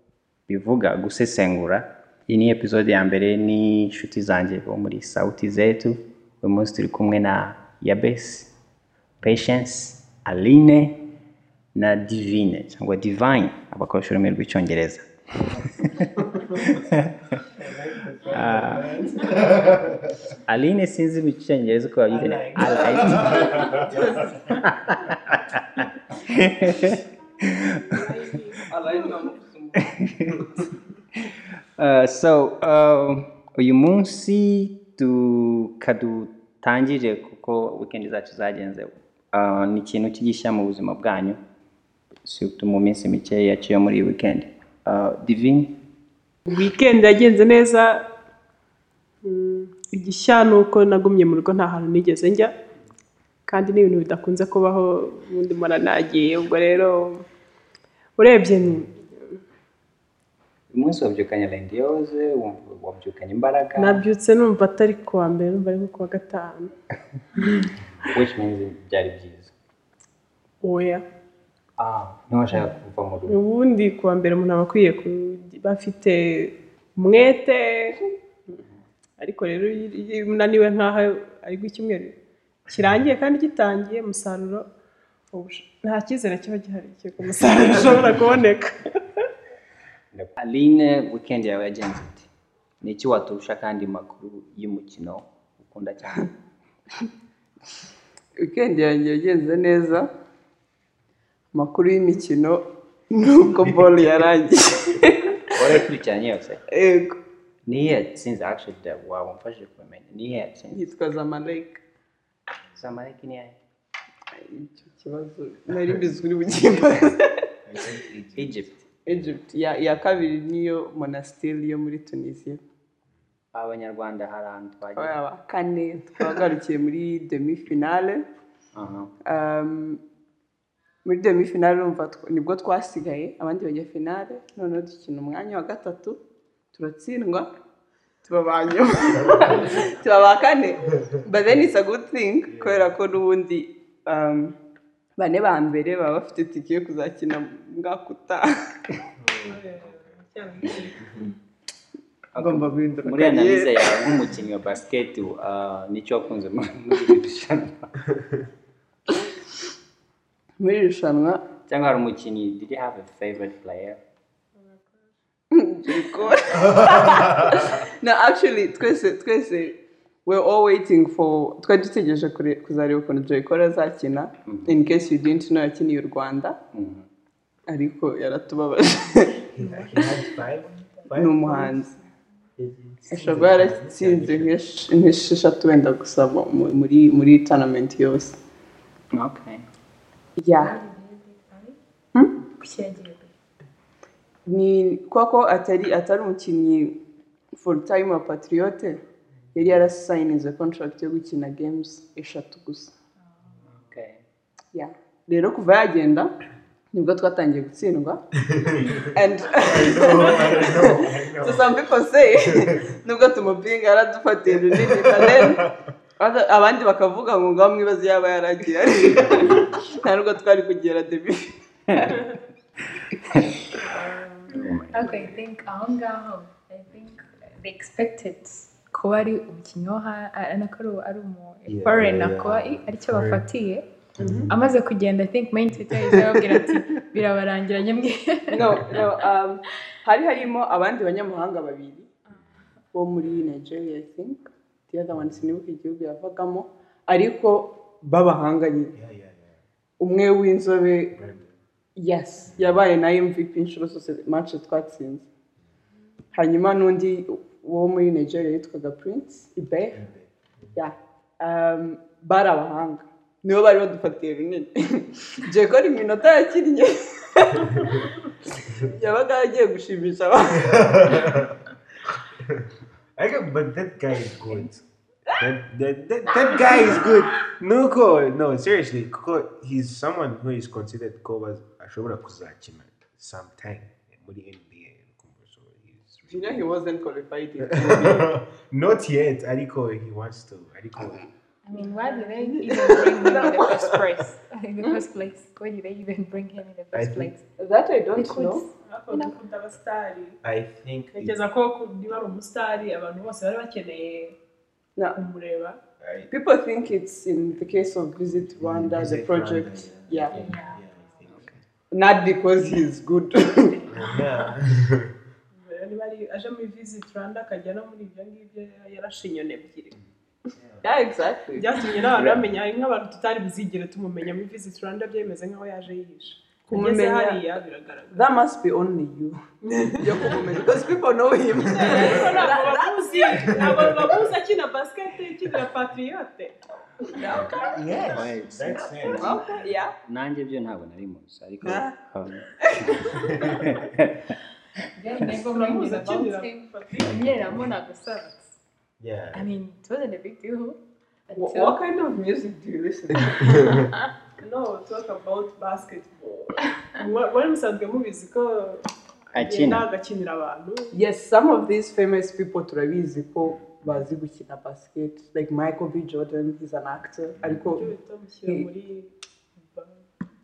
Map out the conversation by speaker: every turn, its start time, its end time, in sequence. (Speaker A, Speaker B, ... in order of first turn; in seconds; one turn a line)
Speaker A: 0.5-8.5
Speaker A: 9.2-10.9
Speaker A: 11.7-17.4
Speaker B: 17.5-20.2
Speaker A: 18.3-19.0
Speaker A: 20.5-23.8
Speaker B: 22.1-24.4
Speaker C: 24.0-24.2
Speaker A: 24.6-28.2
Speaker D: 27.9-28.6
Speaker C: 28.6-29.9
Speaker A: 29.8-30.6
Speaker A: 31.2-41.4
Speaker A: 42.2-45.7
Speaker D: 46.5-48.0
Speaker D: 49.2-52.5
Speaker D: 53.5-57.2
Speaker D: 58.2-59.4
Speaker A: 60.7-64.0
Speaker D: 63.8-66.7
Speaker D: 67.4-67.7
Speaker A: 68.0-69.5
Speaker D: 70.6-71.0
Speaker A: 71.8-73.4
Speaker D: 73.3-78.0
Speaker D: 79.2-82.1
Speaker D: 82.7-84.7
Speaker D: 85.3-89.2
Speaker A: 90.1-92.3
Speaker A: 92.8-96.3
Speaker C: 98.4-100.1
Speaker C: 101.5-105.5
Speaker A: 105.5-106.6
Speaker C: 106.7-107.2
Speaker A: 107.7-110.9
Speaker C: 110.7-111.8
Speaker A: 112.8-113.6
Speaker C: 114.3-117.4
Speaker B: 117.6-118.7
Speaker A: 118.3-118.7
Speaker C: 119.0-122.6
Speaker A: 123.5-125.2
Speaker C: 125.0-128.2
Speaker A: 128.8-129.1
Speaker C: 129.2-130.0
Speaker C: 131.0-136.2
Speaker C: 136.7-137.5
Speaker C: 138.2-144.5
Speaker B: 140.9-141.2
Speaker B: 142.5-142.9
Speaker C: 145.2-149.0
Speaker B: 149.2-149.7
Speaker D: 149.4-151.2
Speaker A: 152.3-157.9
Speaker C: 152.3-154.3
Speaker B: 158.1-158.4
Speaker C: 160.6-161.4
Speaker A: 161.7-164.0
Speaker D: 164.6-165.0
Speaker C: 165.5-176.6
Speaker A: 174.4-174.8
Speaker A: 176.7-177.1
Speaker C: 177.7-179.4
Speaker B: 179.5-181.6
Speaker C: 181.1-181.9
Speaker B: 182.6-184.6
Speaker C: 183.1-188.4
Speaker A: 189.1-189.6
Speaker C: 190.4-190.8
Speaker E: 190.6-191.8
Speaker E: 192.4-193.3
Speaker C: 194.5-196.9
Speaker C: 197.5-199.0
Speaker C: 199.5-202.9
Speaker A: 203.7-204.2
Speaker C: 204.7-206.3
Speaker C: 206.9-208.2
Speaker B: 208.4-211.7
Speaker C: 208.9-215.7
Speaker B: 212.4-212.8
Speaker B: 214.7-215.7
Speaker C: 216.2-222.2
Speaker A: 221.9-222.2
Speaker A: 222.9-223.7
Speaker D: 223.8-224.6
Speaker A: 224.5-225.1
Speaker E: 224.9-233.8
Speaker B: 231.7-233.4
Speaker B: 234.2-234.5
Speaker E: 234.5-239.1
Speaker B: 235.9-236.8
Speaker C: 238.5-242.1
Speaker C: 242.9-248.9
Speaker B: 245.1-245.4
Speaker B: 248.9-249.6
Speaker C: 250.0-251.2
Speaker B: 251.1-251.6
Speaker C: 252.0-255.2
Speaker C: 256.3-260.0
Speaker B: 259.9-260.7
Speaker C: 260.8-271.4
Speaker B: 267.6-268.0
Speaker B: 270.6-271.6
Speaker B: 272.3-274.9
Speaker B: 275.4-286.6
Speaker C: 286.3-288.3
Speaker B: 287.6-291.2
Speaker E: 291.7-297.4
Speaker D: 291.9-292.3
Speaker C: 292.3-294.1
Speaker C: 294.8-295.1
Speaker B: 296.9-297.3
Speaker C: 297.6-298.6
Speaker E: 298.2-299.3
Speaker D: 298.9-300.4
Speaker B: 300.4-301.4
Speaker D: 301.1-304.4
Speaker D: 305.2-305.8
Speaker B: 306.0-306.3
Speaker C: 306.3-310.5
Speaker B: 308.4-311.6
Speaker E: 310.1-311.3
Speaker C: 311.9-313.9
Speaker E: 313.8-314.2
Speaker B: 313.9-315.1
Speaker D: 315.6-320.0
Speaker B: 320.6-320.9
Speaker C: 320.8-321.9
Speaker D: 321.6-328.2
Speaker A: 322.1-322.4
Speaker C: 326.7-327.5
Speaker C: 328.1-334.1
Speaker D: 329.7-330.4
Speaker D: 331.6-336.6
Speaker C: 337.0-338.2
Speaker B: 337.2-339.7
Speaker A: 338.0-339.4
Speaker C: 339.0-339.9
Speaker A: 340.0-344.4
Speaker C: 341.6-341.9
Speaker C: 342.6-343.1
Speaker B: 343.2-343.8
Speaker E: 345.0-348.6
Speaker D: 345.4-347.2
Speaker B: 347.0-347.6
Speaker B: 349.0-349.5
Speaker E: 349.3-350.8
Speaker E: 351.3-351.8
Speaker C: 351.4-353.9
Speaker B: 353.6-353.9
Speaker D: 354.4-361.0
Speaker A: 359.3-359.9
Speaker C: 360.9-367.9
Speaker D: 367.7-369.1